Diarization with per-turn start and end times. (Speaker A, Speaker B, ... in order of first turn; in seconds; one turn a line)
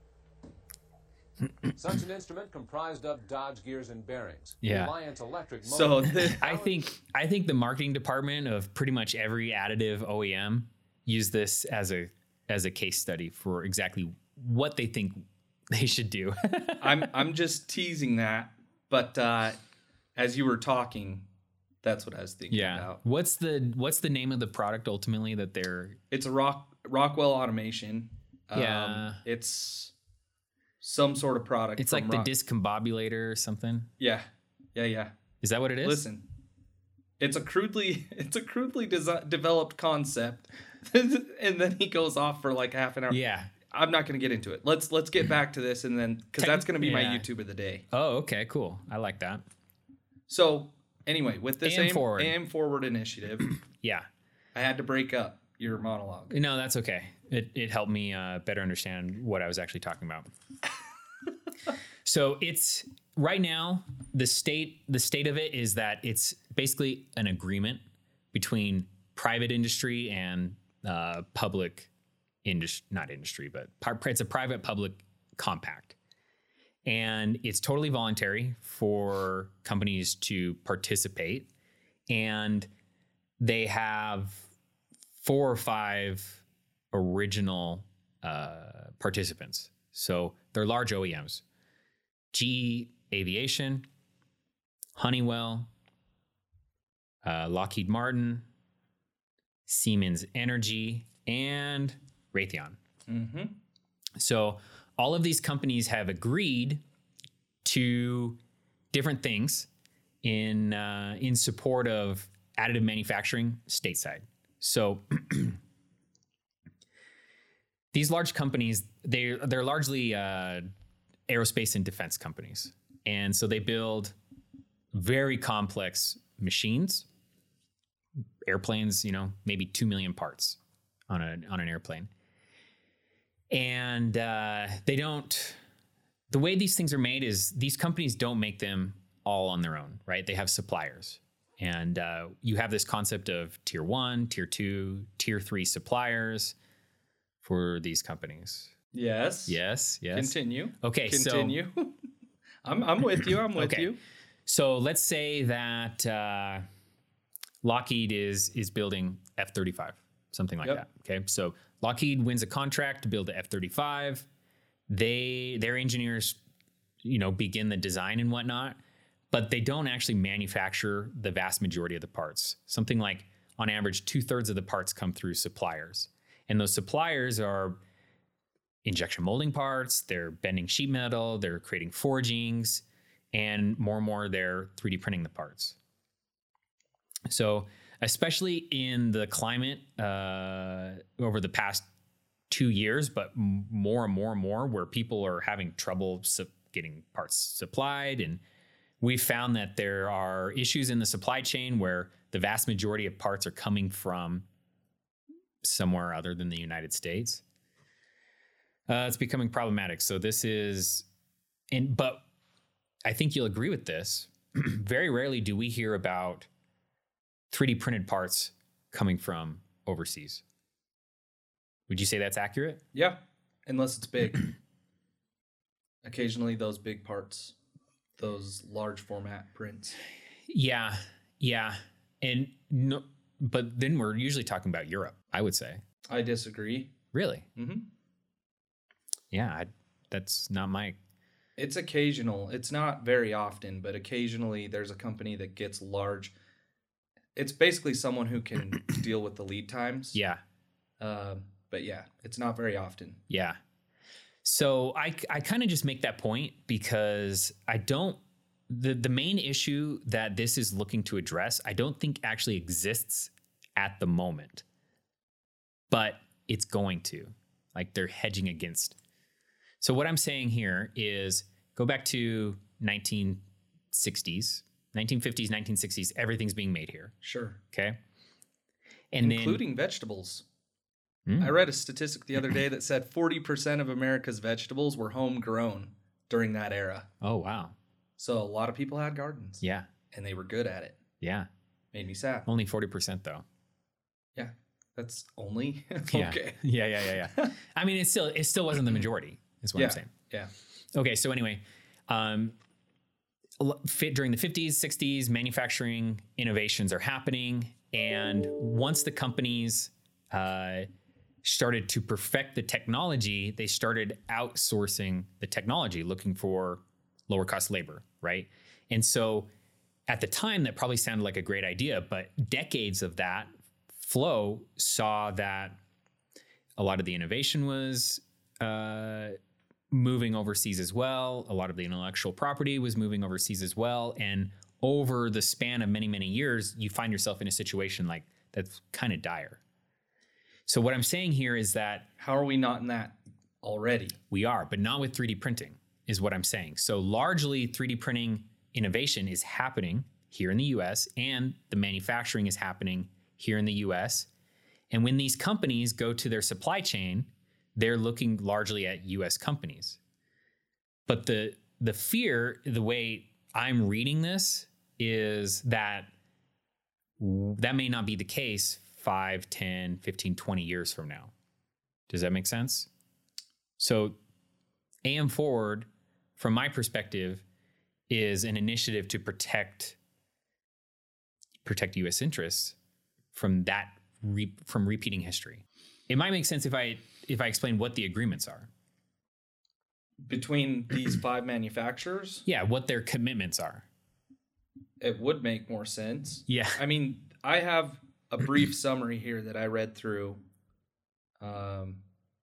Speaker A: 1.7-6.7
Speaker B: 4.6-4.9
Speaker C: 5.6-6.5
Speaker B: 6.4-17.1
Speaker C: 16.8-19.6
Speaker C: 20.1-21.3
Speaker C: 21.8-23.0
Speaker B: 22.5-26.0
Speaker C: 26.1-29.9
Speaker B: 28.5-29.2
Speaker C: 30.8-32.3
Speaker B: 31.8-33.9
Speaker C: 34.0-35.1
Speaker B: 35.4-36.0
Speaker C: 35.8-36.2
Speaker C: 37.2-47.8
Speaker B: 43.1-43.5
Speaker B: 46.4-47.3
Speaker B: 47.9-49.4
Speaker C: 50.3-53.5
Speaker B: 51.6-52.4
Speaker C: 54.5-56.4
Speaker B: 56.3-60.3
Speaker B: 62.0-67.8
Speaker B: 68.3-71.9
Speaker B: 72.4-76.0
Speaker B: 76.8-81.5
Speaker B: 82.1-82.7
Speaker B: 83.4-84.5
Speaker B: 85.2-91.4
Speaker B: 92.3-93.9
Speaker B: 95.0-95.7
Speaker B: 97.2-98.5
Speaker B: 99.7-102.8
Speaker C: 103.1-103.5
Speaker B: 104.2-106.8
Speaker B: 107.6-108.4
Speaker B: 108.9-109.7
Speaker B: 110.2-115.6
Speaker B: 117.9-120.7
Speaker B: 121.3-124.1
Speaker B: 124.9-127.0
Speaker B: 128.4-130.6
Speaker B: 131.1-132.1
Speaker B: 133.5-135.6
Speaker B: 136.3-146.6
Speaker B: 147.4-148.7
Speaker C: 148.9-149.6
Speaker B: 149.5-151.6
Speaker C: 150.1-152.0
Speaker C: 152.6-154.0
Speaker B: 153.5-153.9
Speaker B: 154.4-156.6
Speaker B: 157.6-164.3
Speaker B: 164.9-166.4
Speaker B: 167.0-168.8
Speaker B: 169.3-177.8
Speaker B: 178.8-185.8
Speaker B: 187.3-191.9
Speaker B: 192.5-198.4
Speaker B: 199.0-204.4
Speaker B: 205.6-207.4
Speaker B: 208.9-211.1
Speaker B: 211.7-212.2
Speaker B: 213.0-216.5
Speaker B: 217.5-220.4
Speaker B: 221.9-222.8
Speaker C: 222.9-224.5
Speaker C: 226.0-227.5
Speaker C: 228.2-230.0
Speaker B: 230.5-235.8
Speaker C: 236.1-236.9
Speaker B: 237.1-237.5
Speaker C: 237.6-237.9
Speaker B: 239.3-241.0
Speaker C: 241.6-246.3
Speaker C: 247.4-250.2
Speaker B: 250.1-250.4
Speaker C: 251.0-253.2
Speaker B: 253.3-253.6
Speaker B: 254.4-264.6
Speaker B: 265.9-269.0
Speaker B: 269.8-277.1
Speaker C: 277.2-277.6
Speaker B: 277.7-278.0
Speaker B: 279.1-279.6
Speaker C: 279.2-280.4
Speaker B: 281.2-281.6
Speaker C: 281.4-287.1
Speaker B: 287.2-287.8
Speaker C: 288.2-291.0
Speaker B: 289.6-289.9
Speaker B: 291.2-291.5
Speaker C: 291.9-292.5
Speaker B: 292.5-293.4
Speaker C: 294.4-296.6
Speaker B: 296.1-300.1
Speaker C: 297.2-297.5
Speaker C: 299.8-300.5
Speaker B: 300.9-302.6
Speaker B: 303.6-310.9
Speaker B: 311.4-319.5
Speaker B: 320.1-325.8
Speaker B: 326.8-329.4
Speaker B: 329.9-339.6
Speaker B: 340.7-342.1
Speaker C: 342.2-344.2
Speaker B: 344.3-354.3
Speaker B: 354.9-360.0
Speaker B: 361.1-366.1
Speaker B: 367.2-371.3
Speaker B: 372.1-372.9
Speaker B: 373.8-374.2
Speaker B: 375.0-377.4
Speaker B: 378.1-380.0
Speaker B: 381.6-382.8
Speaker B: 383.3-388.7
Speaker C: 390.2-392.5
Speaker B: 392.5-393.9
Speaker C: 395.0-400.4
Speaker B: 396.5-396.8
Speaker C: 401.4-402.0